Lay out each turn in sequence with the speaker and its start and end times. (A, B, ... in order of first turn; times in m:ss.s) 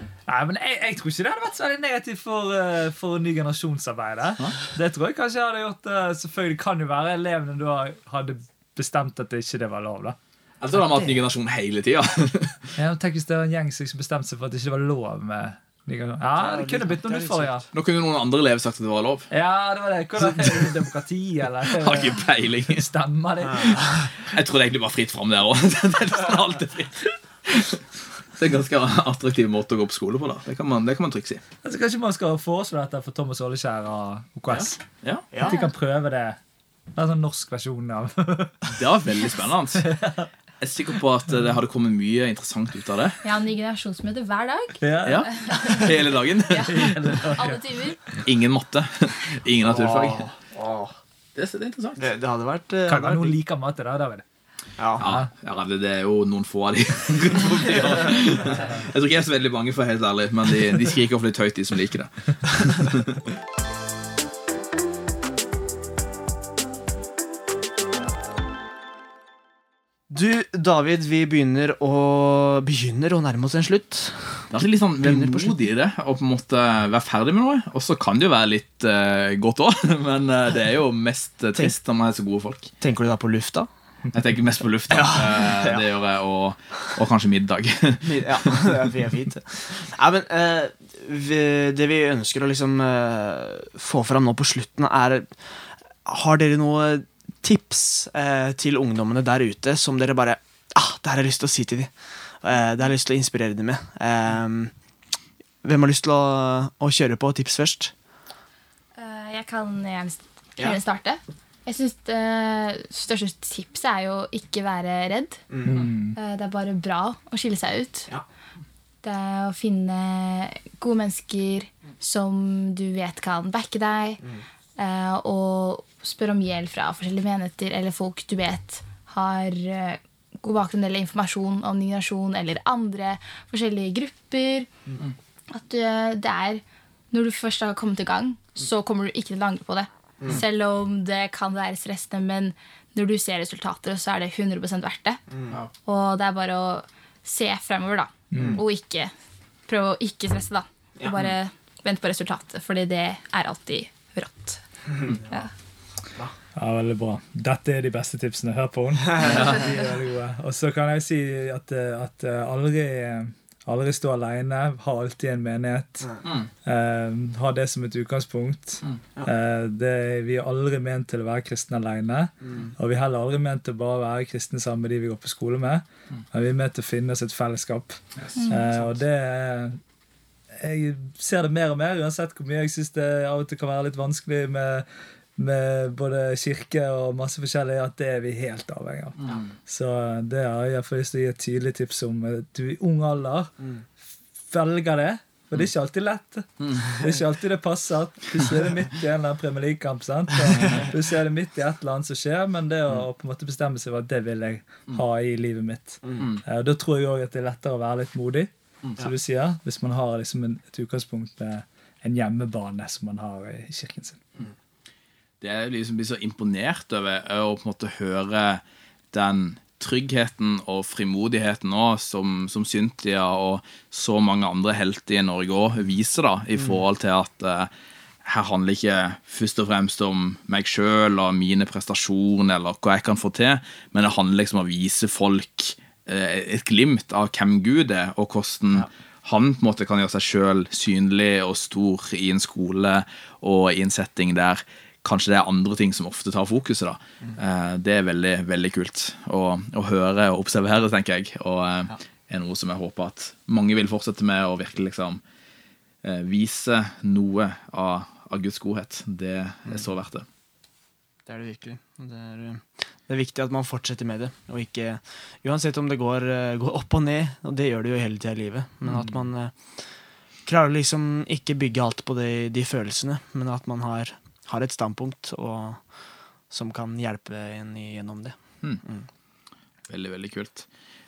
0:00.3-0:10.2 A
0:10.6-0:12.7 B
0:10.7-0:11.1 A
0:12.8-0:17.6 A
0:16.4-0:17.6 C
0:17.7-0:19.3 B
0:19.3-0:24.0 A
0:21.7-0:22.9 B
0:23.5-0:24.0 C
0:24.1-0:31.4 B
0:31.6-0:34.8 A
0:34.6-0:35.3 B
0:35.3-0:35.6 C
0:35.4-0:35.6 D
0:35.4-0:36.4 A
0:37.0-0:38.6 A
0:38.7-0:39.9 B
0:39.8-0:40.3 A
0:40.6-0:43.2 B
0:43.2-0:46.0 D
0:44.8-0:45.9 A
0:45.0-0:47.0 B
0:46.5-0:48.1 D
0:46.5-0:47.6 A
0:48.2-0:50.2 B
0:49.6-0:50.9 C
0:51.4-0:52.1 B
0:52.0-0:53.4 C
0:52.9-0:54.2 A
0:54.8-0:55.0 C
0:55.0-1:03.2 B
0:55.0-0:55.3 A
1:10.1-1:15.6 C
1:14.5-1:22.7 B
1:22.8-1:23.7 C
1:24.1-1:28.6 B
1:24.9-1:25.8 C
1:28.0-1:44.7 C
1:45.6-1:47.9 C
1:49.0-1:55.5 D
1:55.5-1:55.8 C
1:55.6-1:56.2 A
1:56.2-1:58.1 D
1:59.0-2:04.2 D
2:04.8-2:14.7 D
2:15.5-2:25.2 D
2:25.8-2:29.1 D
2:28.3-2:28.6 A
2:28.3-2:28.6 C
2:29.7-2:35.5 D
2:34.9-2:35.5 C
2:36.6-2:59.8 A
2:39.2-2:39.6 B
3:00.6-3:04.9 A
3:05.4-3:13.6 A
3:14.5-3:34.2 A
3:35.4-3:47.7 B
3:48.2-4:15.2 B
4:16.0-4:20.2 B
4:21.3-4:29.6 C
4:28.9-4:29.1 B
4:30.5-4:35.8 C
4:36.5-4:39.1 C
4:39.9-4:40.7 B